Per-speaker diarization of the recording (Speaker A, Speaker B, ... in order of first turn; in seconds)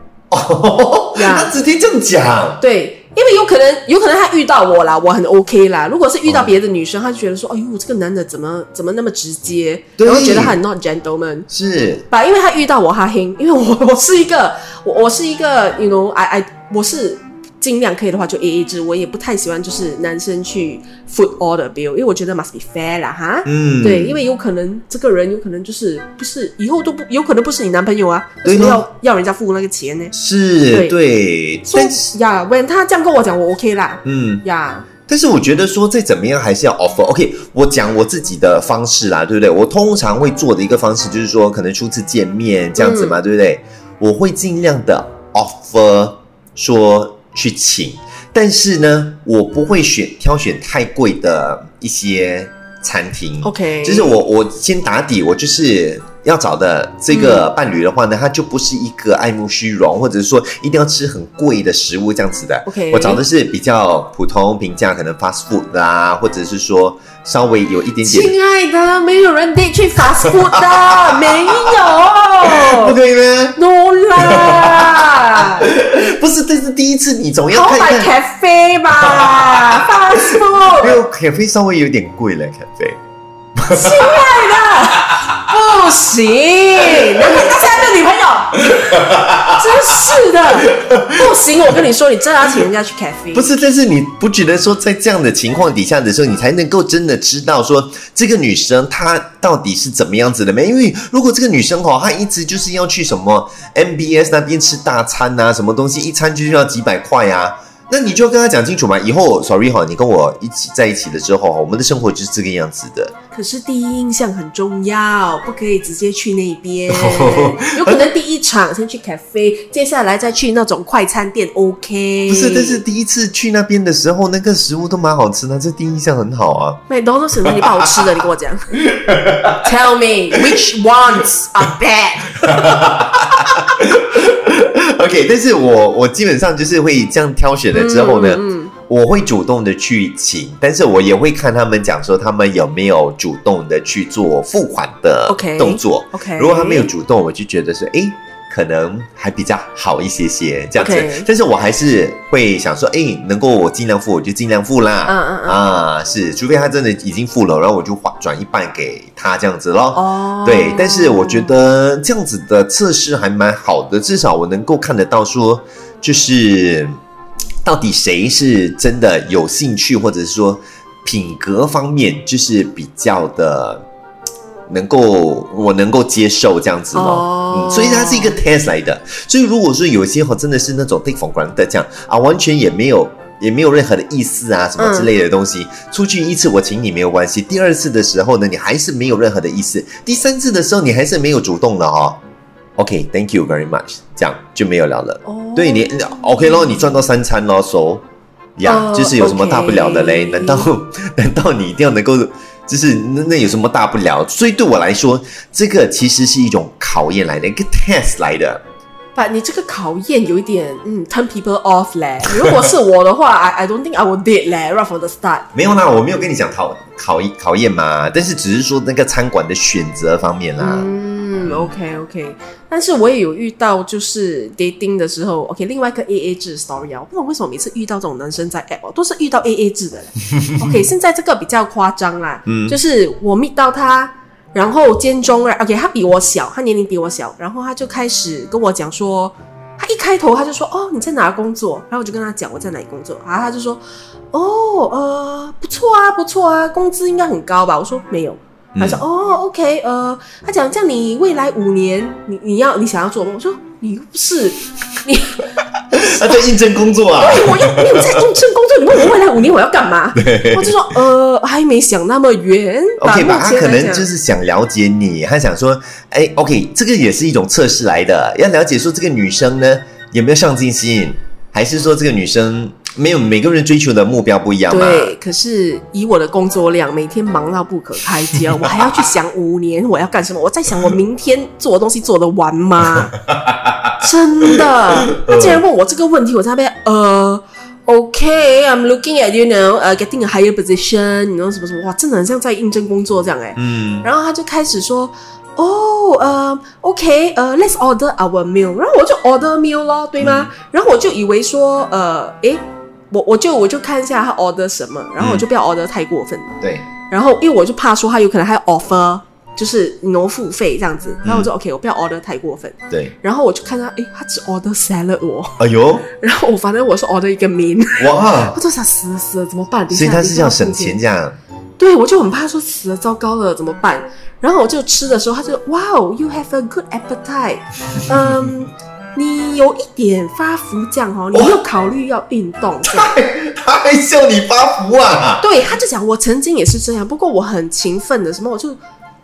Speaker A: 0.3-2.6, 6.3-6.5, 10.0-10.6, 11.5-12.1, 23.4-24.2, 28.4-28.8, 30.1-32.0, 34.0-34.4, 35.1-68.3, 70.5-73.6, 74.2-78.1, 79.0-83.0, 83.6-84.5, 87.3-87.6, 88.7-89.6, 90.7-91.1, 93.3-113.1, 116.9-118.1, 122.3-126.8, 127.5-127.8, 128.9-129.5, 132.5-167.0, 167.7-173.8, 174.7-192.2, 192.8-198.0, 198.6-208.6, 215.5-220.9, 232.5-232.8, 248.8-249.0, 255.9-258.2, 260.2-260.8, 263.0-275.1, 278.4-279.0, 283.1-284.0, 285.1-285.6, 293.6-294.1, 300.2-300.5, 305.2-305.4, 306.6-306.9, 315.6-316.1, 318.0-318.6, 319.9-321.4, 331.3-331.6, 332.8-335.5
Speaker B: 1.1-1.5, 2.6-11.5, 12.1-30.1, 30.7-31.0, 31.7-34.9, 42.8-43.2, 53.4-54.2, 57.1-57.5, 62.7-63.2, 68.0-73.0, 73.6-75.7, 77.5-81.0, 83.7-93.5, 113.3-122.8, 126.9-128.8, 129.5-133.2, 137.7-138.7, 145.3-146.9, 150.8-151.3, 155.1-155.6, 159.9-161.6, 176.9-178.4, 184.8-185.1, 195.2-196.5, 198.6-200.7, 209.2-215.5, 220.6-243.8, 244.3-255.4, 257.2-264.1, 274.7-283.1, 284.0-315.6, 316.1-321.0, 321.8-333.2, 335.4-338.8